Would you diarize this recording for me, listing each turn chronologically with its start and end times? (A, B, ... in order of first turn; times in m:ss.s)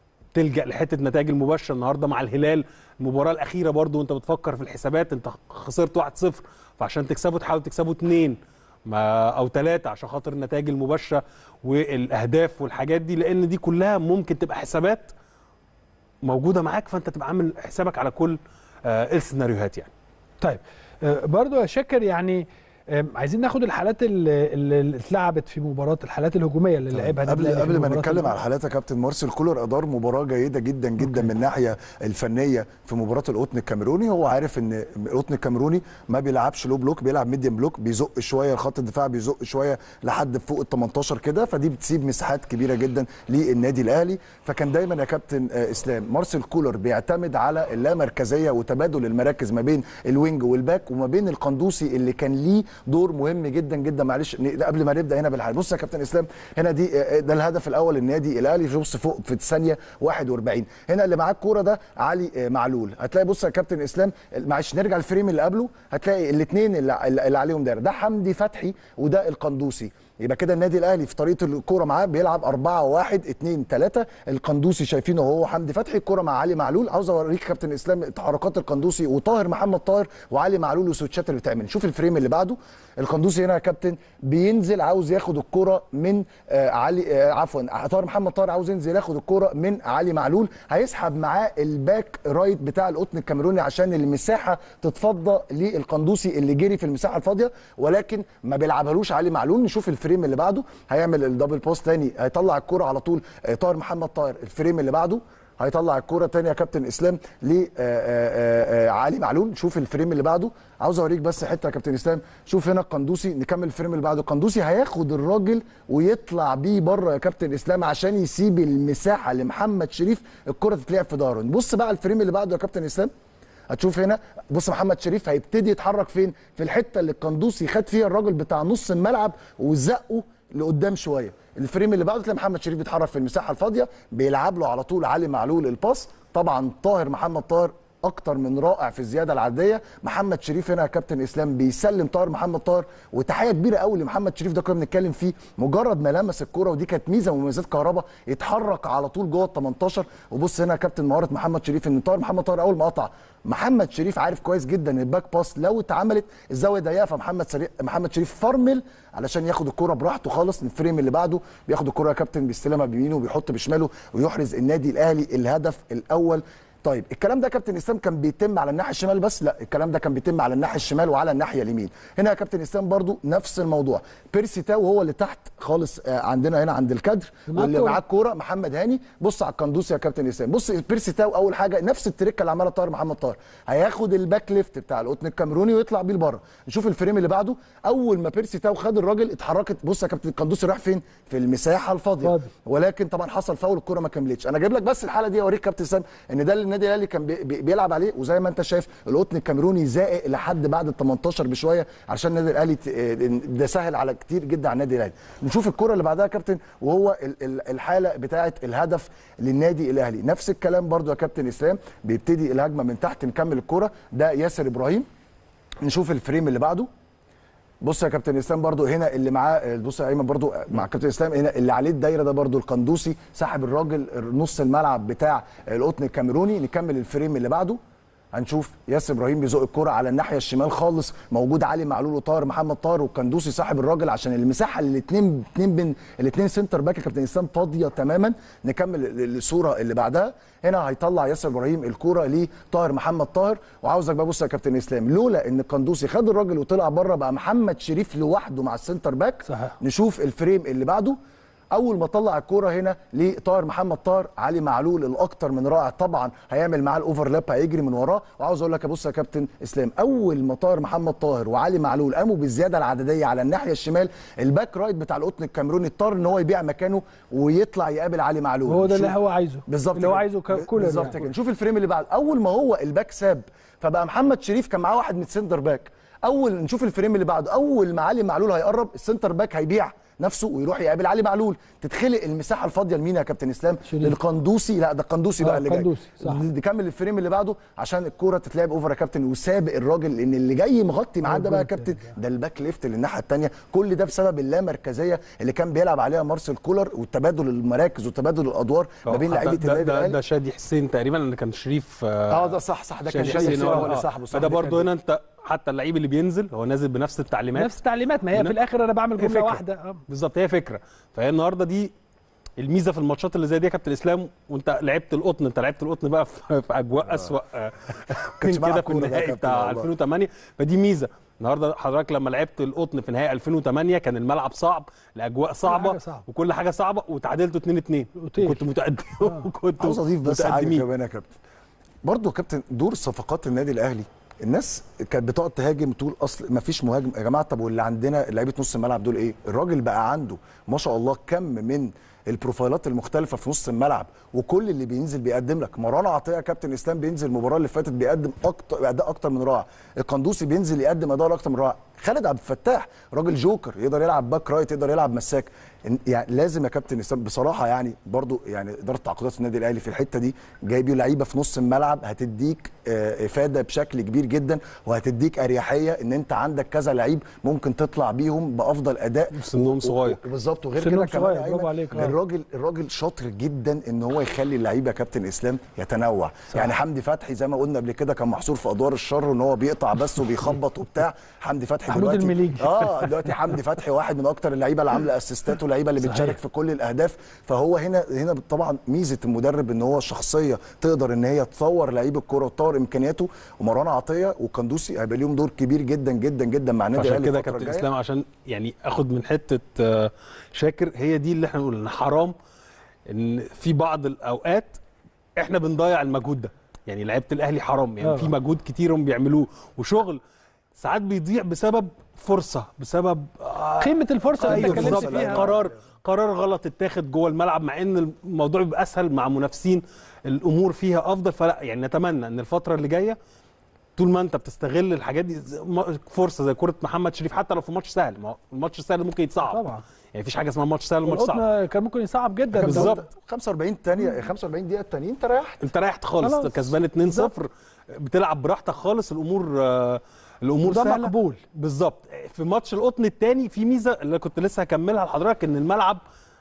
0:00.3-0:15.1 A
0:16.2-0:19.9 A
0:20.4-0:28.3 B
0:27.0-2:03.1 C
0:31.0-0:31.2 B
2:03.7-3:35.0 C
2:57.5-2:58.0 B
3:12.2-3:12.5 B
3:35.8-3:36.9 C
3:37.8-3:47.8 C
3:48.3-4:11.2 C
4:09.4-4:09.8 B
4:11.7-4:29.1 C
4:28.7-4:31.2 B
4:29.7-5:00.2 C
4:43.8-4:44.2 B
4:45.4-4:46.4 B
4:51.2-4:52.1 B
4:59.0-5:07.8 A
5:02.3-5:04.9 C
5:03.2-5:03.9 B
5:07.5-5:10.0 B
5:09.2-5:11.9 A
5:12.6-5:30.8 A
5:17.0-5:17.3 C
5:18.4-5:19.9 C
5:25.6-5:26.2 B
5:28.2-5:28.6 B
5:29.8-5:31.3 C
5:32.0-6:37.9 C
6:09.3-6:10.2 A
6:10.8-6:12.2 B
6:21.9-6:23.0 B
6:26.0-6:26.4 B
6:37.0-6:42.3 A
6:43.1-6:44.8 A
6:45.4-6:50.2 A
6:48.0-6:48.3 B
6:50.8-7:03.2 A
6:53.8-6:55.4 B
6:54.4-6:55.7 C
7:04.0-7:11.4 A
7:09.5-7:09.8 B
7:11.0-7:13.0 B
7:12.6-7:13.0 A
7:12.6-7:15.6 C
7:15.6-7:26.0 A
7:16.2-7:17.3 B
7:20.6-7:21.4 B